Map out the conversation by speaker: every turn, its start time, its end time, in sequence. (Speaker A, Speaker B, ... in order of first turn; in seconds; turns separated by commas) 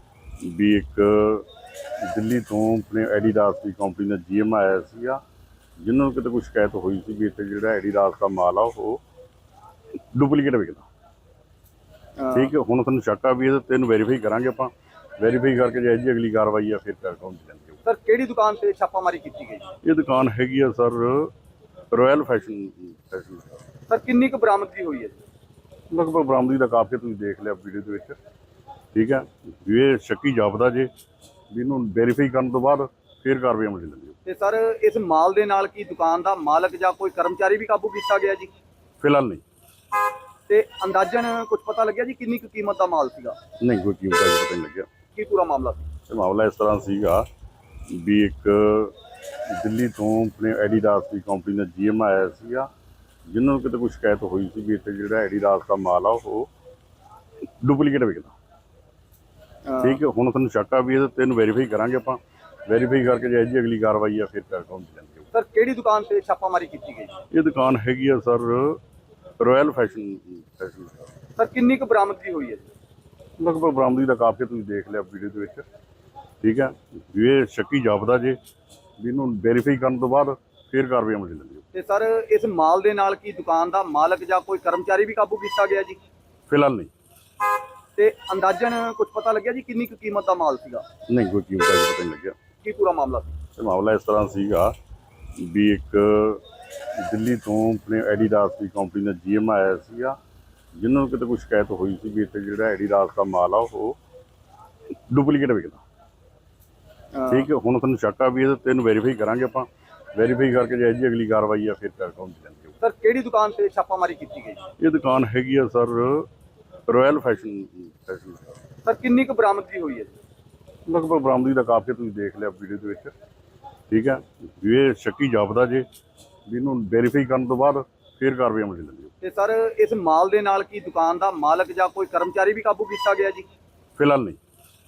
Speaker A: 0.4-1.5, Speaker A: 2.0-5.2, Speaker A: 5.8-9.0, Speaker A: 10.1-10.9, Speaker B: 12.2-12.5, Speaker A: 12.3-17.8, Speaker B: 17.9-19.7, Speaker A: 19.8-21.3, Speaker A: 21.9-23.6, Speaker B: 23.9-25.2, Speaker A: 25.9-28.2, Speaker A: 28.9-30.9, Speaker A: 31.5-34.2, Speaker B: 34.2-38.5, Speaker A: 39.0-39.4, Speaker B: 40.5-43.4, Speaker A: 43.6-44.9, Speaker B: 45.1-45.9, Speaker A: 46.1-47.2, Speaker A: 47.9-48.9, Speaker A: 49.5-52.7, Speaker A: 53.3-56.5, Speaker A: 57.6-58.3, Speaker B: 59.7-60.0, Speaker A: 59.8-65.3, Speaker B: 65.3-67.2, Speaker A: 67.3-68.8, Speaker A: 69.4-71.0, Speaker B: 71.4-72.7, Speaker A: 73.4-75.7, Speaker A: 76.4-78.4, Speaker A: 79.0-81.6, Speaker B: 81.7-86.0, Speaker A: 86.5-86.9, Speaker B: 88.0-90.8, Speaker A: 91.1-92.3, Speaker B: 92.6-93.4, Speaker A: 93.6-94.7, Speaker A: 95.4-96.4, Speaker A: 97.0-100.2, Speaker A: 100.8-104.0, Speaker A: 105.1-105.8, Speaker B: 107.1-107.5, Speaker A: 107.3-112.7, Speaker B: 112.8-114.7, Speaker A: 114.8-116.3, Speaker A: 116.9-118.5, Speaker B: 118.8-120.2, Speaker A: 120.9-123.1, Speaker A: 123.9-125.8, Speaker A: 126.5-129.1, Speaker B: 129.2-133.5, Speaker A: 134.0-134.4